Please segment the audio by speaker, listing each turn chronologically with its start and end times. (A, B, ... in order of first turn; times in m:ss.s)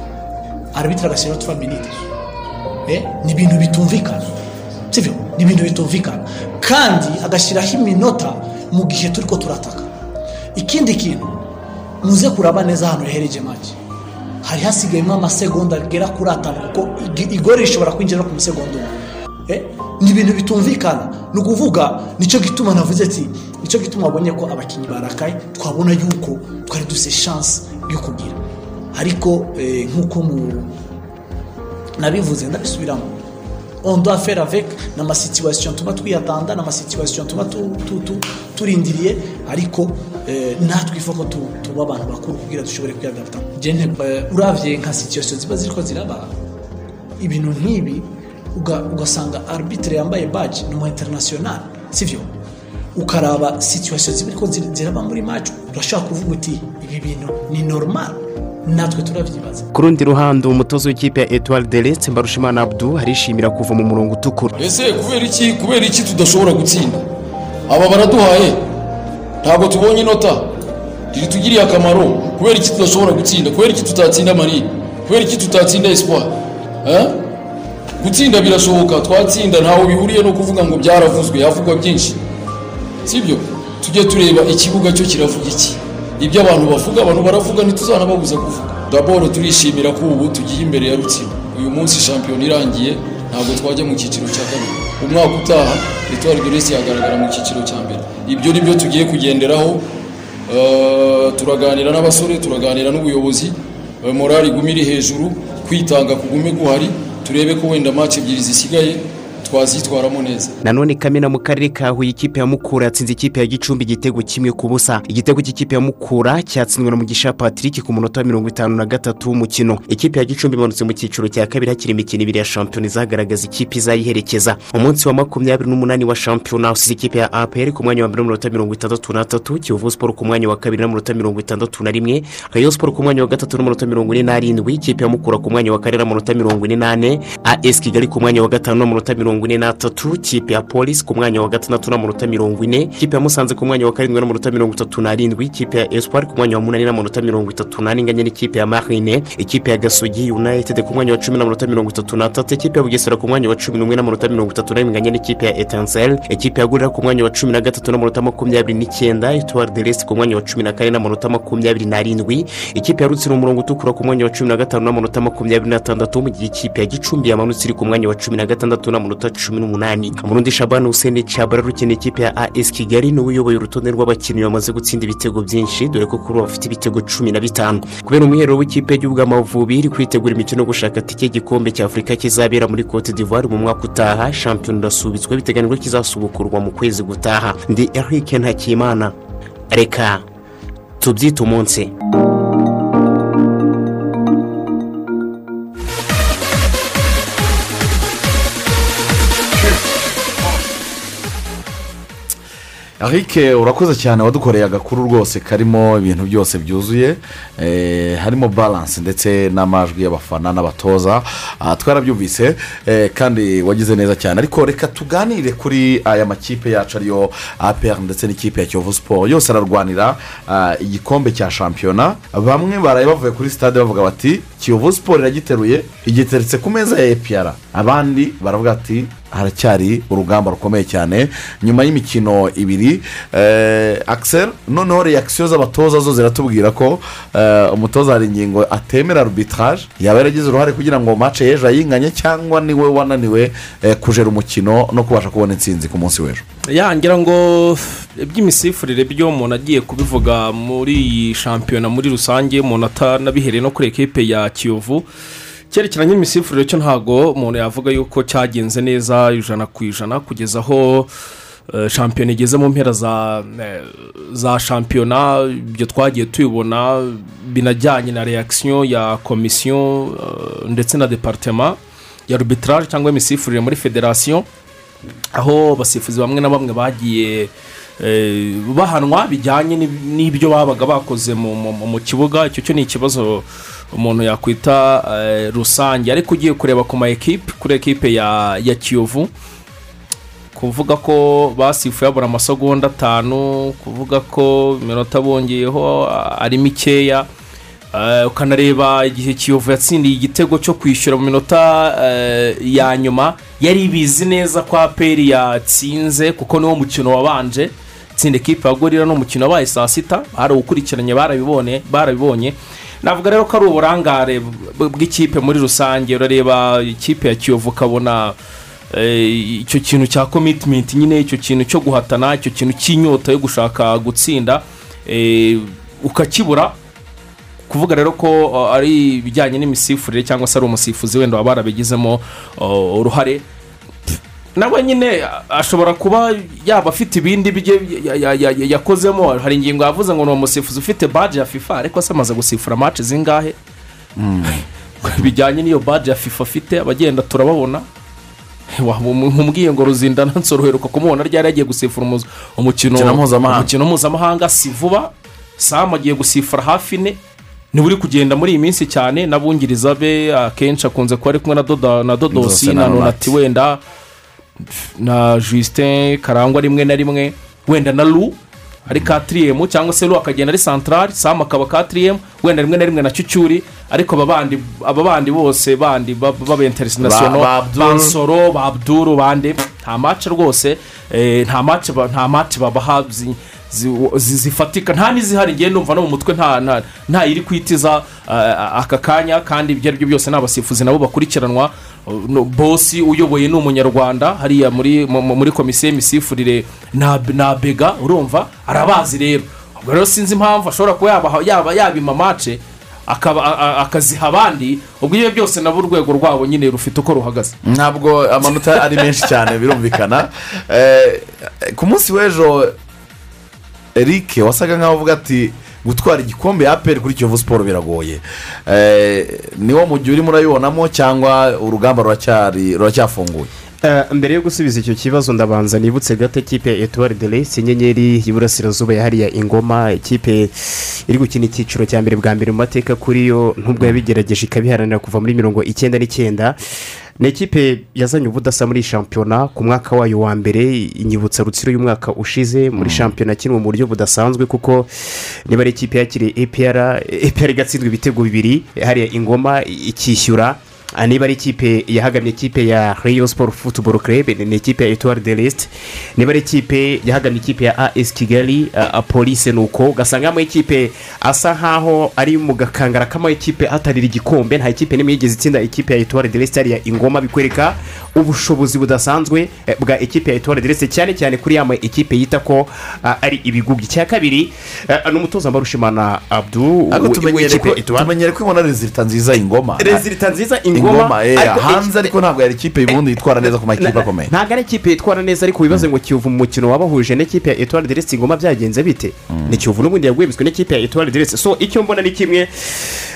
0:00.7-0:02.0 A
0:02.9-0:04.4 A
0:04.9-0:09.9 A
0:10.6-0:11.4 A
0:12.0-0:13.8 A
0:14.4-0:28.4 A
0:28.9-0:30.7 A
0:32.0-0:33.2 A
0:33.8-0:46.3 A
0:47.2-0:52.3 A
0:52.9-0:59.7 A
0:59.7-1:04.5 B
1:04.6-1:07.0 C
1:07.7-1:08.6 C
1:09.4-1:10.5 C
1:11.1-1:16.3 C
1:16.8-1:17.2 C
1:18.0-1:22.2 C
1:23.0-1:39.8 C
1:40.5-1:50.6 C
1:50.6-3:09.1 B
3:09.7-3:10.2 B
3:11.0-3:11.9 B
3:23.0-4:06.4 D
4:06.7-4:15.1 E
4:15.7-4:21.1 E
4:21.7-4:31.8 E
4:32.3-4:34.4 E
4:35.4-4:49.3 E
4:50.5-4:57.2 E
4:57.9-5:18.4 E
5:18.9-5:26.7 E
5:27.7-5:33.4 E
5:34.6-5:43.6 E
5:44.2-5:44.6 D
5:45.0-5:47.8 E
5:48.8-5:57.2 E
5:52.9-5:53.7 D
5:57.7-6:03.8 E
6:02.3-6:03.3 D
6:04.8-6:08.4 E
6:08.9-6:47.5 E
6:17.0-6:18.2 D
6:47.6-6:52.7 D
6:53.9-7:03.5 D
7:03.8-7:10.5 B
7:11.1-7:16.6 B
7:17.2-7:24.9 B
7:22.8-7:23.1 D
7:25.5-7:58.1 B
7:56.9-8:00.0 D
7:59.8-8:02.1 B
8:00.7-8:04.3 D
8:03.8-8:12.8 B
8:09.3-8:09.6 D